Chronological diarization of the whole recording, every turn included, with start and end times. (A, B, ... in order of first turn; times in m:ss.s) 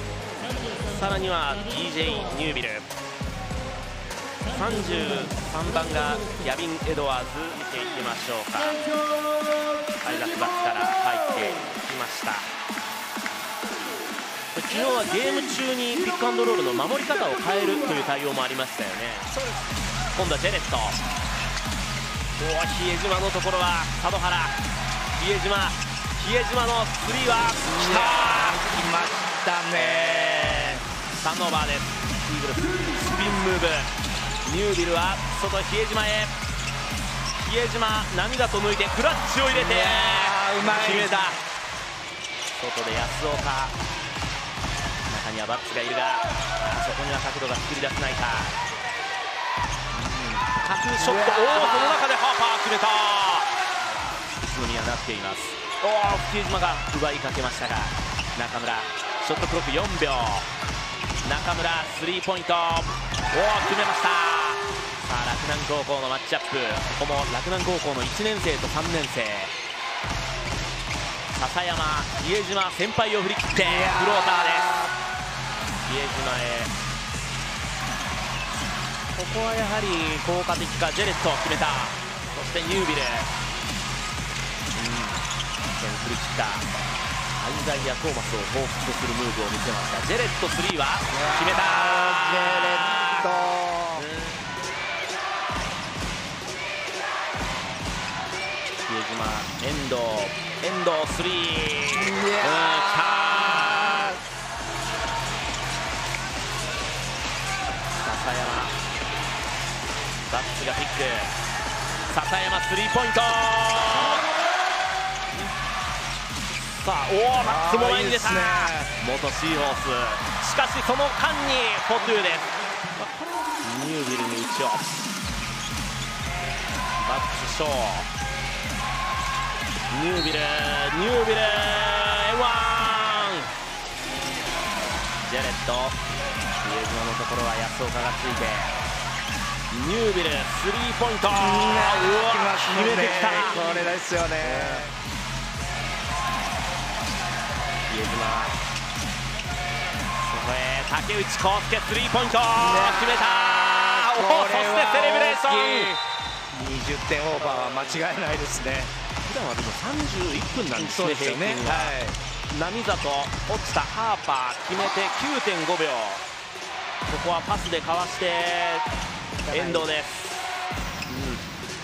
0:00.4-0:02.9 A
0:04.5-0:08.8 A
0:10.0-0:12.5 A
0:14.6-0:19.4 A
0:19.3-0:19.6 B
0:20.1-0:21.0 A
0:22.4-0:24.6 A
0:25.1-0:28.6 A
0:27.6-0:30.8 B
0:29.7-0:33.9 A
0:34.4-0:36.3 A
0:37.4-0:41.4 A
0:39.5-0:41.3 B
0:42.5-0:43.8 A
0:45.1-0:48.6 A
0:49.9-1:00.5 A
0:51.0-0:52.0 B
1:01.2-1:09.5 A
1:11.3-1:14.8 A
1:13.5-1:15.0 B
1:15.9-1:16.7 A
1:19.2-1:23.3 A
1:24.7-1:25.2 A
1:25.7-1:26.7 A
1:27.4-1:33.3 A
1:31.1-1:34.1 B
1:34.0-1:34.4 A
1:38.8-1:44.2 A
1:41.9-1:44.1 B
1:48.0-1:48.8 A
1:50.3-1:51.3 A
1:52.1-1:54.3 A
1:56.5-2:05.0 A
1:57.4-1:58.9 B
2:07.0-2:08.1 A
2:09.9-2:13.5 A
2:15.2-2:16.0 A
2:16.6-2:18.8 A
2:19.7-2:23.6 A
2:21.3-2:24.9 B
2:24.4-2:24.9 A
2:27.9-2:28.6 A
2:30.2-2:35.9 A
2:32.6-2:33.3 B
2:33.9-2:36.0 B
2:36.5-2:38.9 B
2:37.5-2:38.0 A
2:39.2-2:42.0 A
2:40.8-2:42.2 B
2:42.5-2:46.2 A
2:47.1-2:48.9 A
2:49.5-2:49.9 B
2:49.5-2:50.5 A
2:51.1-2:51.4 A